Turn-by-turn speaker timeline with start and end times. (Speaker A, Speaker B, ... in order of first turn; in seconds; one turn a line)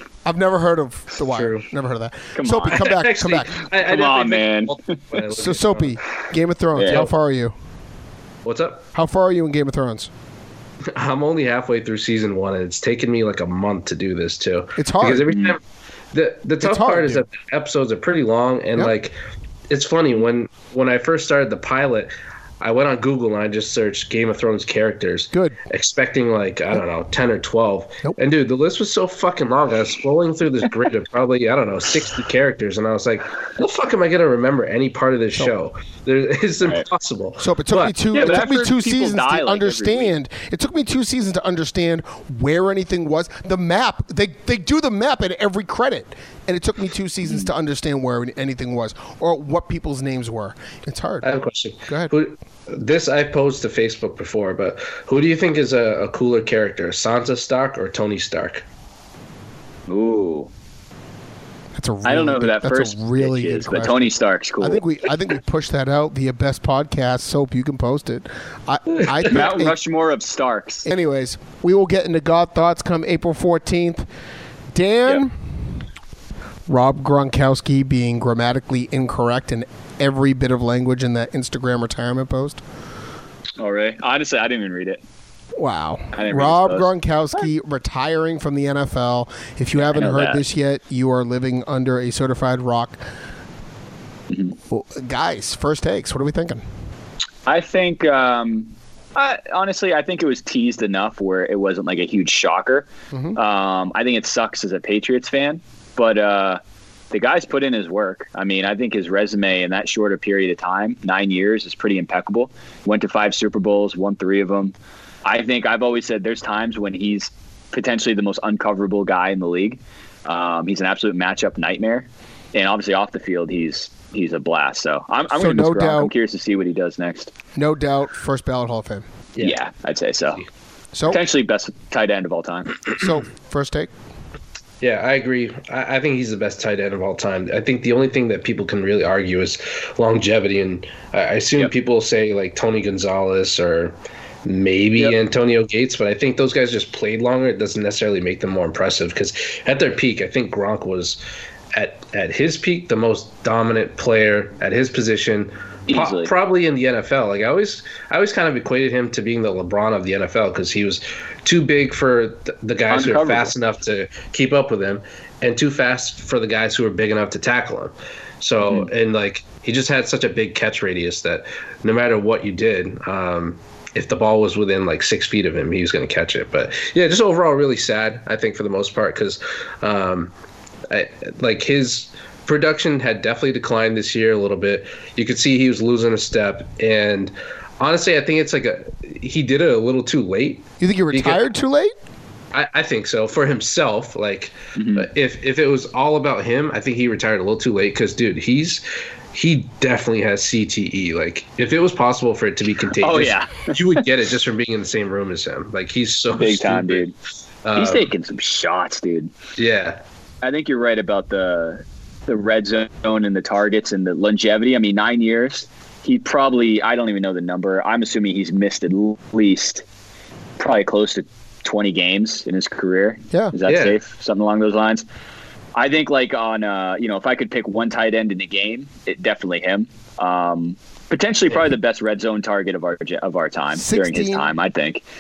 Speaker A: 0.2-3.6
Speaker B: 1.3-1.7
Speaker C: 2.3-2.9
Speaker B: 2.7-6.0
Speaker C: 3.8-5.0
Speaker A: 5.3-7.5
Speaker C: 6.8-7.0
Speaker B: 8.4-8.8
Speaker A: 8.9-10.1
Speaker B: 10.9-15.6
Speaker A: 14.8-15.3
Speaker C: 15.3-15.6
Speaker B: 16.1-19.1
Speaker A: 16.6-17.2
Speaker B: 19.7-38.5
Speaker A: 25.3-25.6
Speaker A: 37.4-51.3
Speaker C: 38.1-40.1
Speaker B: 51.2-58.6
Speaker C: 59.9-60.5
Speaker A: 61.8-69.8
Speaker C: 62.0-64.8
Speaker C: 69.2-70.9
Speaker A: 70.9-74.1
Speaker A: 74.7-75.5
Speaker A: 76.7-82.6
Speaker C: 83.6-85.0
Speaker A: 85.6-93.0
Speaker C: 86.1-86.9
Speaker C: 89.8-90.4
Speaker A: 94.7-96.6
Speaker C: 97.5-106.6
Speaker A: 103.1-103.4
Speaker C: 107.1-114.7
Speaker C: 115.2-127.3
Speaker A: 125.3-126.1
Speaker A: 127.5-129.1
Speaker C: 129.4-130.4
Speaker A: 130.9-131.2
Speaker C: 131.1-132.8
Speaker A: 133.0-133.9
Speaker B: 134.8-151.2
Speaker B: 151.7-180.3
Speaker C: 155.9-156.3
Speaker C: 162.9-163.5
Speaker B: 180.9-191.4
Speaker A: 190.8-191.9
Speaker B: 192.5-207.1
Speaker C: 194.8-195.1
Speaker C: 203.0-204.1
Speaker C: 206.3-207.1
Speaker B: 207.6-208.1
Speaker C: 207.8-209.3
Speaker B: 209.6-210.0
Speaker C: 210.4-219.8
Speaker C: 220.6-225.1
Speaker B: 223.7-224.0
Speaker C: 225.8-235.0
Speaker A: 233.7-234.5